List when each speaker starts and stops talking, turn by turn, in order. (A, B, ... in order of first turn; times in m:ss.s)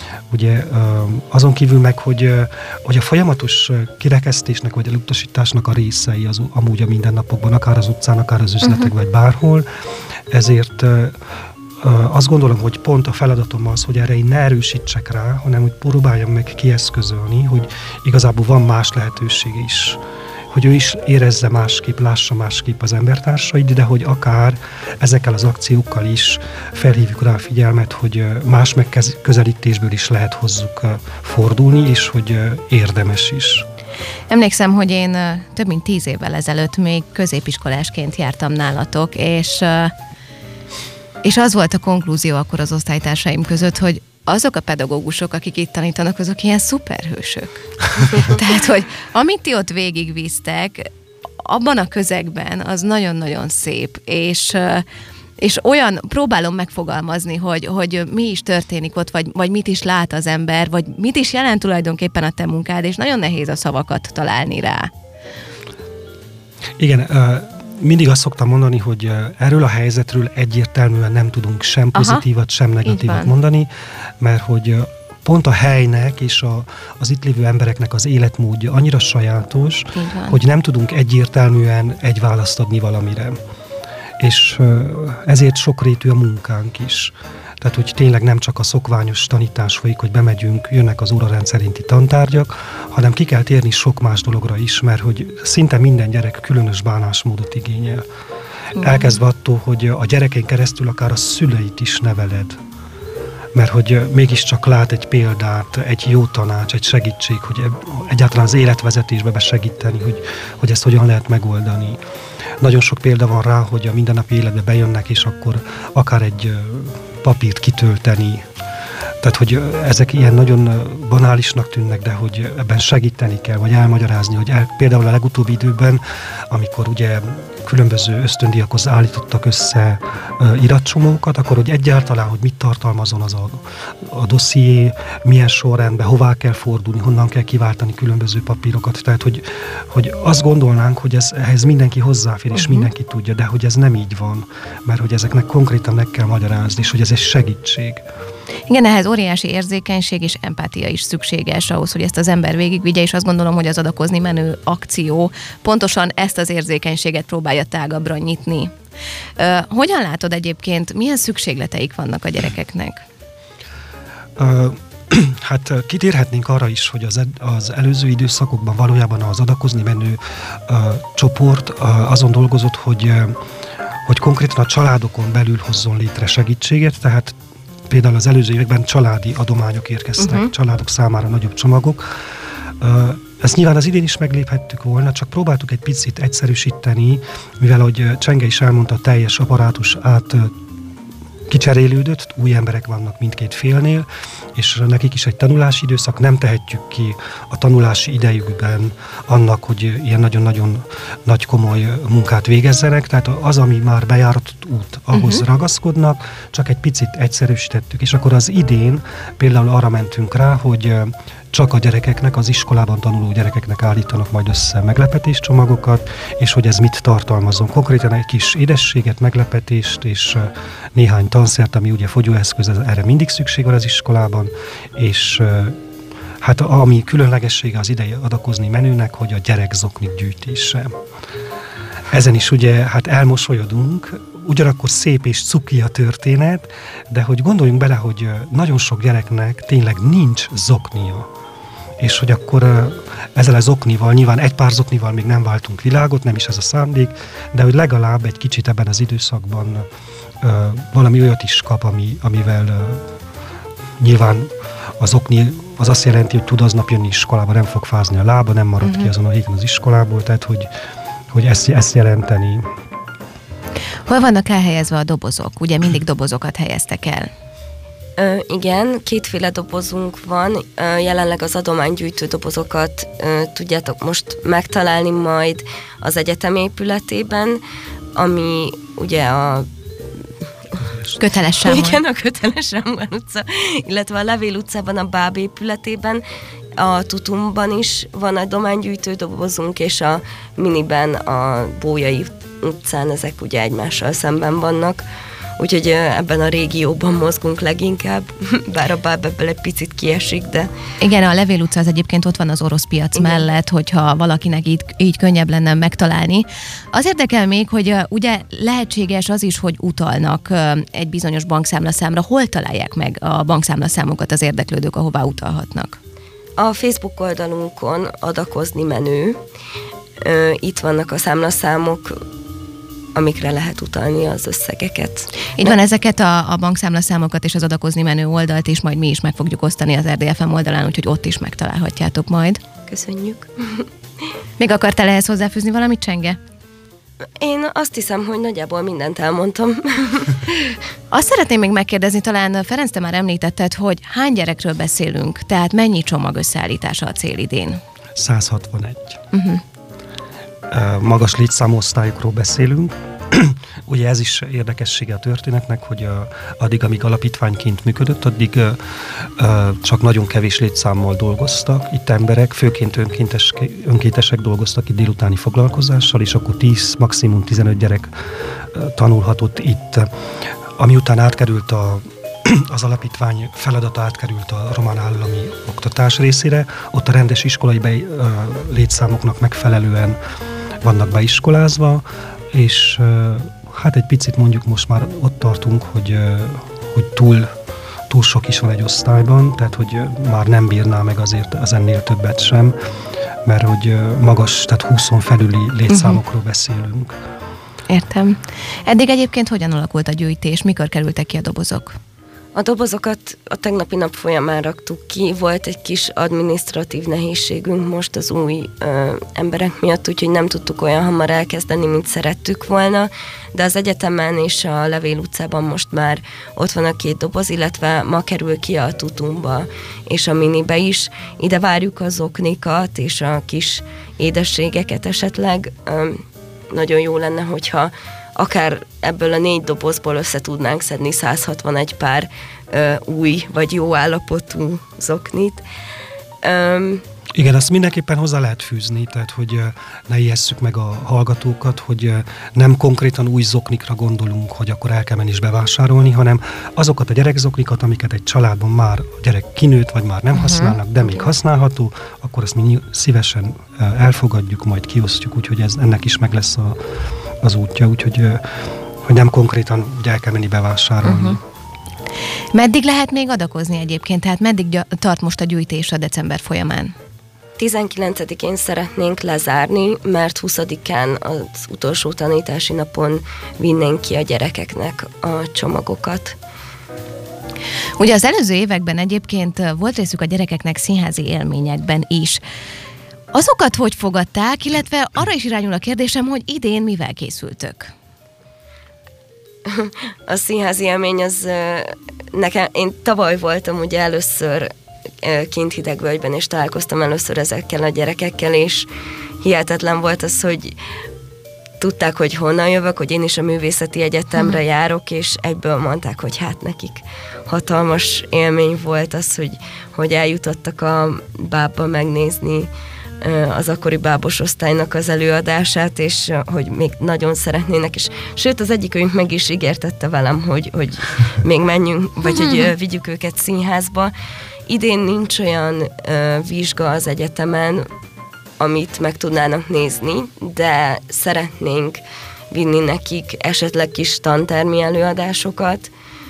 0:00.3-0:09.7 A
0:10.3-0:11.2 A
0:11.8-0:33.7 A
0:34.3-0:39.9 B
0:41.2-0:54.8 B
0:55.4-1:04.9 B
1:06.8-1:23.4 A
1:12.0-1:12.2 B
1:12.9-1:13.3 B
1:20.0-1:20.4 B
1:24.2-1:38.0 A
1:38.8-1:42.6 A
1:43.6-1:52.0 A
1:52.6-1:58.5 A
1:59.2-2:28.0 A
2:22.6-2:22.9 B
2:28.7-2:38.7 B
2:39.4-2:43.0 B
2:44.4-2:53.4 A
2:54.1-2:57.4 A
2:57.9-3:02.2 A
3:00.2-3:00.5 B
3:02.8-3:10.6 A
3:11.5-3:45.8 A
3:25.1-3:25.4 B
3:46.4-3:51.0 A
3:52.1-4:01.3 A
4:02.0-4:09.9 A
4:10.4-4:13.0 A
4:14.0-4:20.7 A
4:18.8-4:19.1 B
4:21.3-4:22.6 A
4:24.1-4:27.3 B
4:28.2-4:37.6 C
4:38.2-4:39.7 C
4:41.2-4:42.0 B
4:41.6-4:46.2 C
4:46.8-4:55.0 C
4:55.6-5:00.7 C
5:01.0-5:16.0 B
5:16.6-5:19.4 C
5:20.2-5:22.2 C
5:23.2-5:25.7 C
5:25.6-5:32.6 B
5:32.9-5:33.9 C
5:34.6-5:36.4 B
5:37.4-5:40.8 C
5:41.1-5:47.8 B
5:48.2-5:49.2 A
5:49.3-5:49.6 B
5:50.7-6:08.1 A
6:08.7-6:10.1 A
6:10.8-6:20.2 A
6:20.8-6:27.5 A
6:28.1-6:32.8 A
6:33.4-6:37.2 A
6:35.9-6:36.2 B
6:37.9-6:42.0 B
6:42.6-7:15.6 C
7:16.4-7:17.0 C
7:17.4-7:36.8 A
7:30.4-7:30.8 B
7:37.4-7:41.4 A
7:41.0-7:41.4 B
7:42.5-7:46.9 B
7:47.6-7:56.4 C
7:58.0-8:02.4 B
8:03.3-8:07.9 B
8:09.7-8:18.9 C
8:19.4-8:20.8 C
8:21.8-8:32.7 C
8:33.2-8:44.1 C
8:44.7-8:47.9 C
8:48.6-8:55.9 C